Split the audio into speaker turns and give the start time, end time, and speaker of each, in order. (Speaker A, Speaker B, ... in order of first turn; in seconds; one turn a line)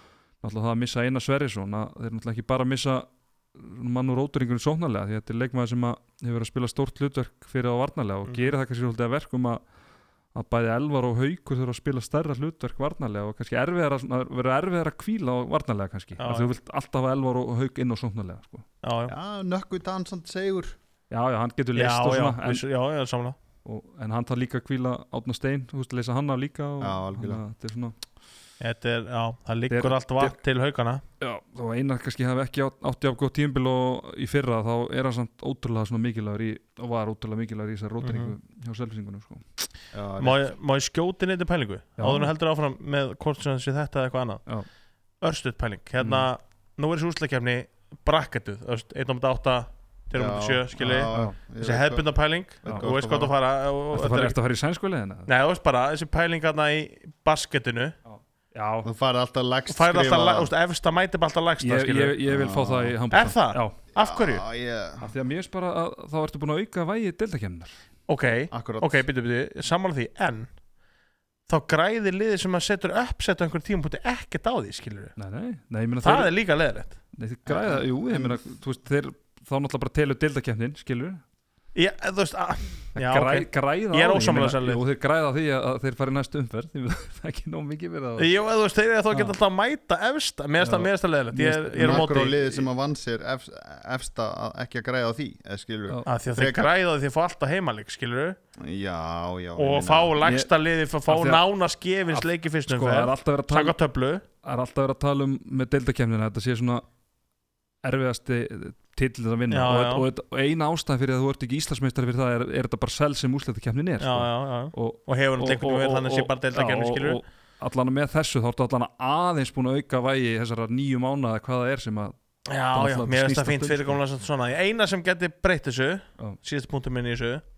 Speaker A: 0.4-9.6
Speaker B: 8.3-8.5
Speaker A: 10.3-18.6
Speaker B: 16.2-16.5
Speaker B: 18.8-19.1
Speaker C: 19.1-20.8
Speaker A: 21.1-22.6
Speaker B: 21.8-23.4
Speaker A: 23.6-27.9
Speaker C: 26.8-27.4
Speaker B: 28.6-31.0
Speaker A: 29.7-30.4
Speaker A: 31.2-39.7
Speaker B: 38.0-38.3
Speaker C: 39.9-40.5
Speaker B: 40.2-44.4
Speaker A: 42.0-42.3
Speaker B: 45.2-54.4
Speaker A: 46.0-46.3
Speaker C: 50.1-52.1
Speaker A: 51.1-51.3
Speaker C: 52.6-53.3
Speaker A: 53.9-55.3
Speaker B: 55.3-58.0
Speaker A: 58.0-58.9
Speaker C: 58.8-60.5
Speaker B: 59.7-62.2
Speaker A: 61.6-63.8
Speaker C: 62.3-63.0
Speaker B: 63.1-64.4
Speaker C: 63.9-65.1
Speaker A: 65.0-67.8
Speaker B: 68.1-70.5
Speaker C: 68.5-69.0
Speaker B: 71.5-75.2
Speaker A: 75.2-76.3
Speaker B: 76.0-77.0
Speaker A: 77.1-81.2
Speaker C: 77.5-78.4
Speaker B: 81.7-84.8
Speaker A: 83.0-88.3
Speaker B: 88.2-92.6
Speaker A: 90.6-92.2
Speaker C: 91.8-96.6
Speaker B: 96.0-98.4
Speaker C: 98.6-100.2
Speaker B: 99.6-104.2
Speaker A: 100.2-100.5
Speaker A: 101.1-101.4
Speaker A: 102.1-103.8
Speaker A: 104.4-106.8
Speaker A: 107.8-122.2
Speaker B: 109.5-110.1
Speaker B: 114.0-117.2
Speaker B: 122.5-127.4
Speaker A: 122.7-124.0